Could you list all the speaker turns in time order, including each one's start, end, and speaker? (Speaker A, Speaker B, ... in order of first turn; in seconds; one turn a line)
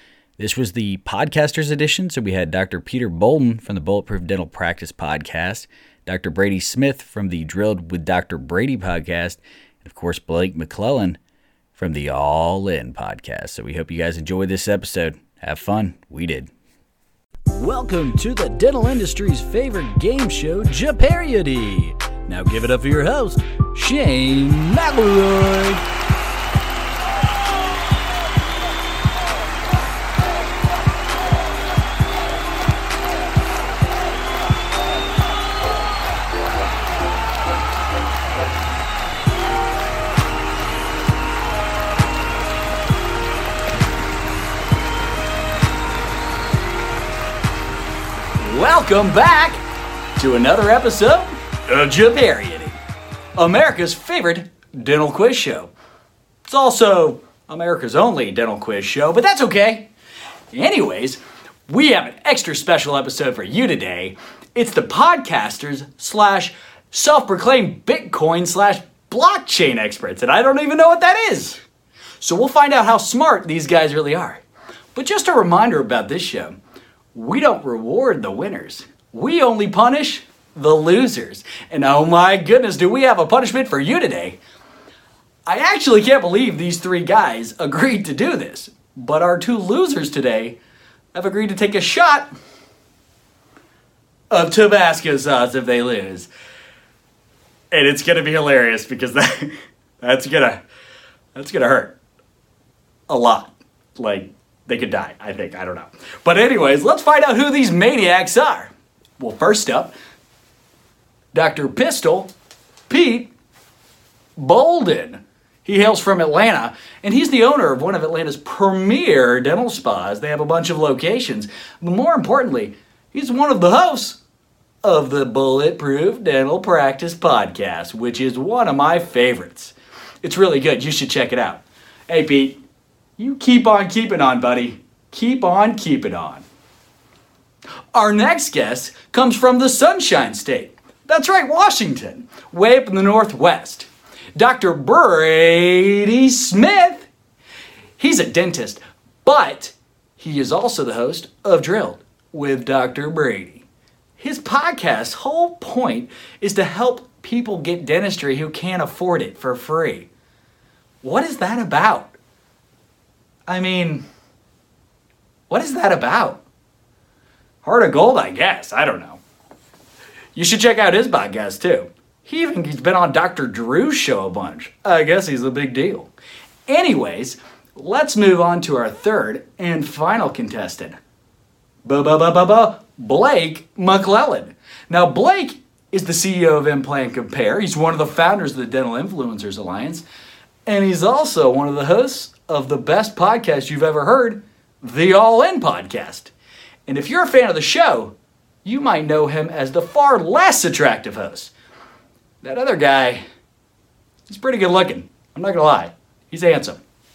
Speaker A: 0.4-11.2
Speaker A: 11.8-16.5
Speaker A: 17.5-25.8
Speaker A: 48.4-49.6
Speaker A: 50.2-52.8
Speaker A: 53.4-55.7
Speaker A: 56.5-59.9
Speaker A: 60.5-71.6
Speaker A: 72.2-74.4
Speaker A: 74.9-76.6
Speaker A: 77.1-84.4
Speaker A: 85.5-90.6
Speaker A: 91.1-92.3
Speaker A: 94.3-96.3
Speaker A: 97.7-100.6
Speaker A: 101.3-102.0
Speaker A: 103.1-109.9
Speaker A: 111.3-112.3
Speaker A: 112.9-113.3
Speaker A: 114.4-124.2
Speaker A: 124.8-132.6
Speaker A: 133.2-136.4
Speaker A: 137.9-147.1
Speaker A: 148.0-153.7
Speaker A: 154.2-160.1
Speaker A: 161.0-162.1
Speaker A: 163.5-164.1
Speaker A: 165.5-166.4
Speaker A: 167.6-169.2
Speaker A: 170.3-176.1
Speaker A: 176.7-181.0
Speaker A: 181.8-190.0
Speaker A: 190.7-196.3
Speaker A: 196.8-201.5
Speaker A: 202.4-203.2
Speaker A: 204.3-206.8